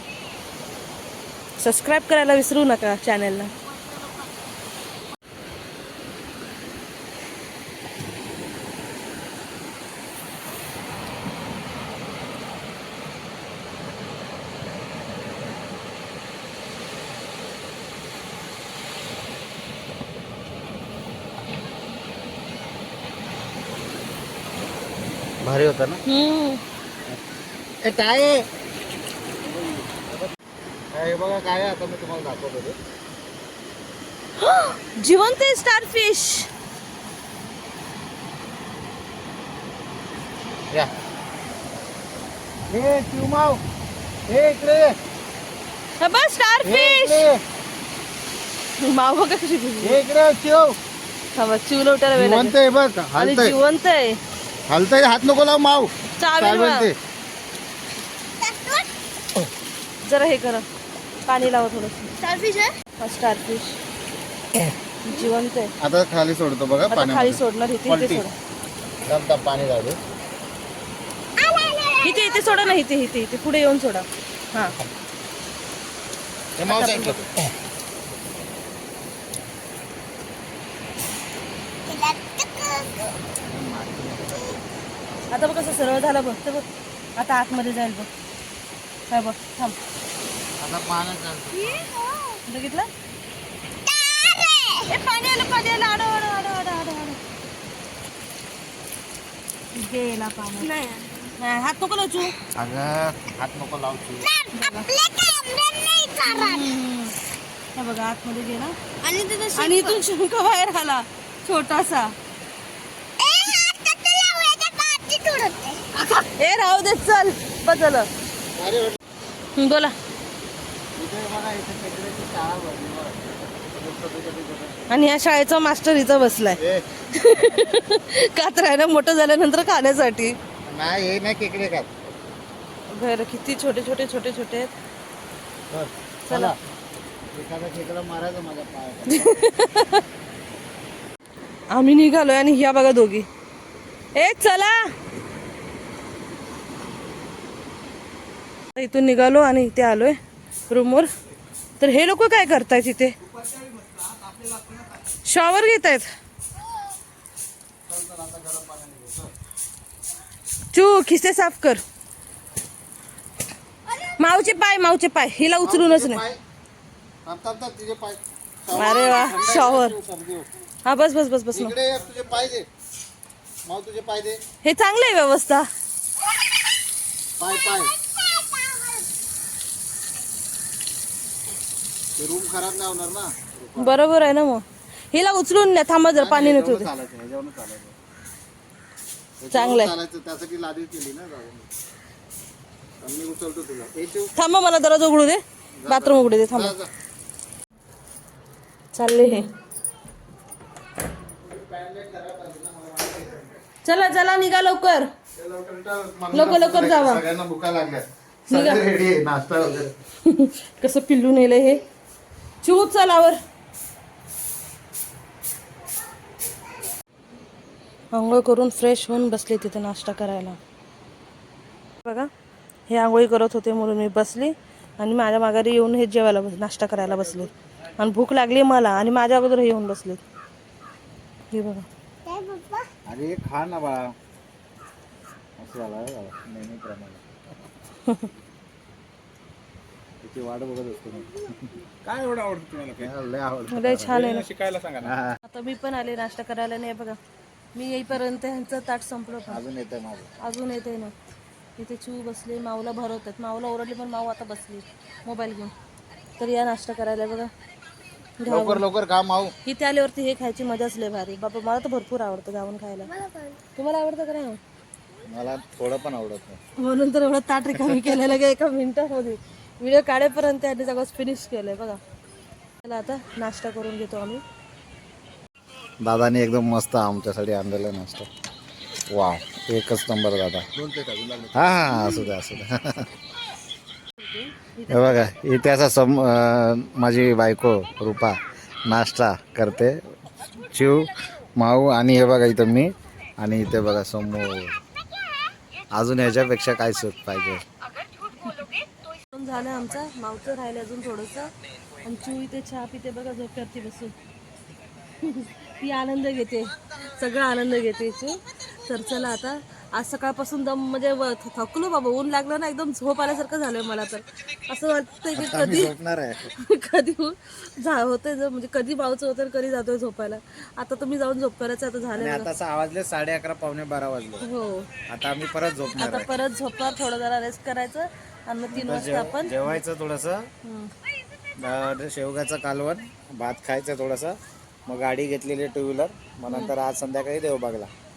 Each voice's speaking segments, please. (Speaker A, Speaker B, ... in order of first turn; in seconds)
Speaker A: 1.6-3.5, 26.1-26.6, 34.4-36.5, 46.0-47.2, 48.8-50.0, 51.4-52.5, 53.2-54.2, 56.2-56.9, 60.1-60.6, 61.3-62.1, 63.0-63.8, 65.0-65.7, 66.9-68.3, 72.0-74.8, 76.7-77.3, 85.3-88.1, 89.1-89.8, 92.5-92.9, 94.9-97.2, 99.8-100.7, 101.4-102.3, 104.5-104.9, 106.2-107.2, 107.8-108.8, 109.5-112.2, 116.0-118.1, 119.6-119.9, 124.9-126.6, 127.1-130.4, 132.9-134.7, 136.3-136.5, 139.1-140.0, 141.7-143.3, 144.2-144.9, 148.8-150.2, 150.7-151.1, 151.8-153.1, 155.2-156.1, 160.7-161.8, 164.2-166.2, 168.7-169.9, 170.8-171.7, 174.6-175.7, 183.8-186.9, 189.5-189.9, 194.4-196.8, 198.9-199.5, 203.8-205.1, 206.3-207.2, 208.5-208.8, 210.2-211.8, 212.6-213.4, 218.1-220.6, 222.9-230.2, 231.5-231.9, 243.7-244.4, 245.5-247.2, 247.8-249.6, 250.4-251.1, 251.8-255.7, 256.4-257.5, 258.4-258.8, 259.7-263.1, 263.8-264.6, 266.8-272.0, 272.8-274.4, 282.0-282.3, 284.2-285.3, 299.3-301.5, 302.0-304.1, 305.2-315.9, 316.6-322.5, 324.4-324.9, 326.0-329.8, 330.6-330.9
Speaker B: 25.4-26.0, 27.8-28.5, 29.4-30.3, 30.9-32.8, 42.7-43.6, 44.3-45.0, 46.6-47.4, 49.8-50.8, 52.1-53.6, 54.7-57.0, 65.8-68.3, 69.0-70.0, 76.6-77.2, 83.5-84.6, 90.6-91.6, 102.5-104.3, 118.6-119.0, 121.0-124.8, 126.6-127.0, 130.7-131.9, 135.7-136.6, 137.3-139.4, 153.5-154.8, 157.9-159.3, 165.6-166.4, 167.2-170.5, 171.5-172.7, 173.7-174.4, 177.4-177.9, 182.2-184.0, 186.1-188.0, 189.4-191.7, 193.0-194.3, 195.8-196.9, 201.3-203.6, 205.4-209.9, 233.1-234.1, 235.6-237.2, 240.2-241.7, 243.0-244.3, 245.0-245.4, 249.5-250.3, 258.5-259.5, 265.3-266.6, 276.0-278.3, 279.1-280.7, 281.5-283.1, 284.9-290.0, 290.6-294.8, 295.9-297.6, 315.4-316.5, 322.2-324.4, 325.1-326.3, 328.7-330.5, 331.6-337.9
Speaker C: 58.4-58.9, 62.2-62.7, 71.4-72.8, 81.9-83.0, 91.5-92.4, 94.0-94.8, 100.6-101.1, 104.3-106.8, 109.0-110.0, 113.2-115.8, 232.2-232.9, 263.1-263.6
Speaker D: 242.1-243.1, 244.1-245.2, 280.8-281.9